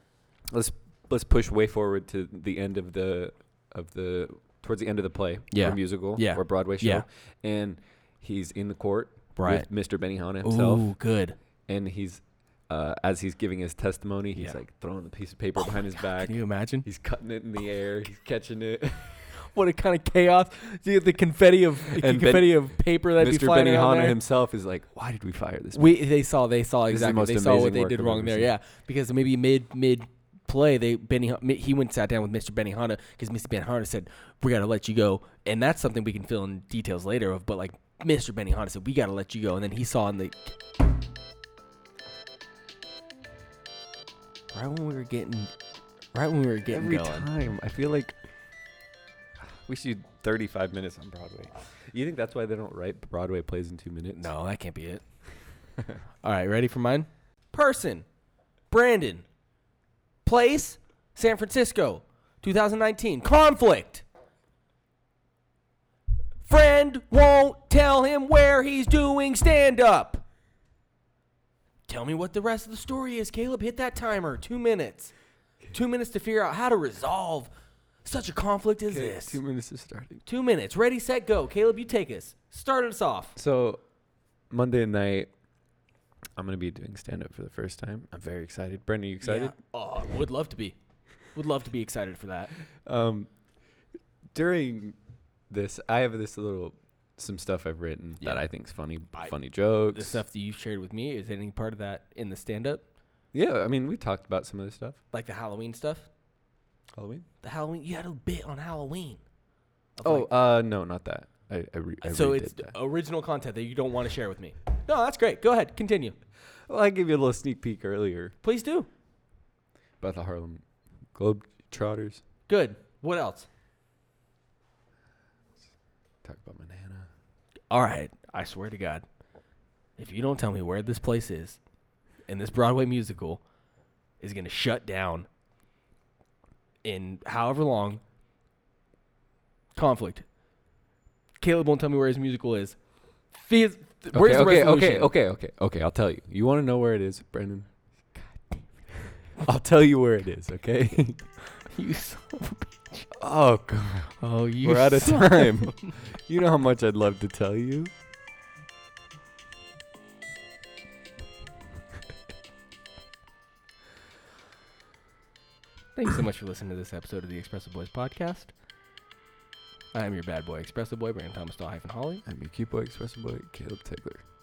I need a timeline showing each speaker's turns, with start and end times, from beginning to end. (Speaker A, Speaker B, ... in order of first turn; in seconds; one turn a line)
Speaker A: 0.5-10.9
Speaker B: 5.5-7.0
Speaker B: 9.3-9.7
Speaker B: 10.4-11.3
Speaker A: 11.7-19.3
Speaker B: 16.1-16.9
Speaker B: 19.4-24.2
Speaker A: 21.9-26.0
Speaker B: 25.7-40.5
Speaker A: 26.9-28.5
Speaker B: 44.5-45.5
Speaker B: 46.1-47.3
Speaker A: 46.7-48.2
Speaker A: 49.6-54.3
Speaker B: 54.1-55.0
Speaker B: 56.2-58.0
Speaker B: 58.7-59.2
Speaker B: 60.2-64.0
Speaker B: 66.4-70.2
Speaker B: 71.9-75.1
Speaker B: 75.7-77.5
Speaker B: 78.0-79.4
Speaker A: 78.9-80.1
Speaker B: 80.2-83.3
Speaker A: 83.3-83.8
Speaker A: 84.5-85.3
Speaker A: 86.4-89.5
Speaker B: 89.2-90.8
Speaker B: 91.3-92.5
Speaker A: 92.8-93.3
Speaker A: 94.3-95.0
Speaker A: 95.5-100.2
Speaker B: 99.9-102.8
Speaker A: 103.3-105.0
Speaker B: 105.1-106.1
Speaker A: 107.0-107.2
Speaker B: 107.4-109.2
Speaker B: 110.0-110.3
Speaker A: 110.0-112.7
Speaker B: 112.0-116.2
Speaker A: 116.7-118.3
Speaker B: 118.4-118.9
Speaker A: 120.0-120.6
Speaker A: 121.1-122.2
Speaker B: 122.5-123.5
Speaker A: 126.2-127.1
Speaker B: 127.7-129.0
Speaker B: 130.0-131.6
Speaker B: 132.3-133.4
Speaker B: 134.2-135.3
Speaker B: 136.8-138.0
Speaker B: 139.8-140.2
Speaker B: 141.4-142.8
Speaker B: 143.3-145.1
Speaker A: 144.1-147.7
Speaker B: 148.3-148.7
Speaker A: 149.4-151.2
Speaker B: 151.6-153.1
Speaker A: 153.1-157.9
Speaker B: 154.2-155.9
Speaker B: 165.9-168.5
Speaker B: 169.9-172.2
Speaker A: 172.2-174.2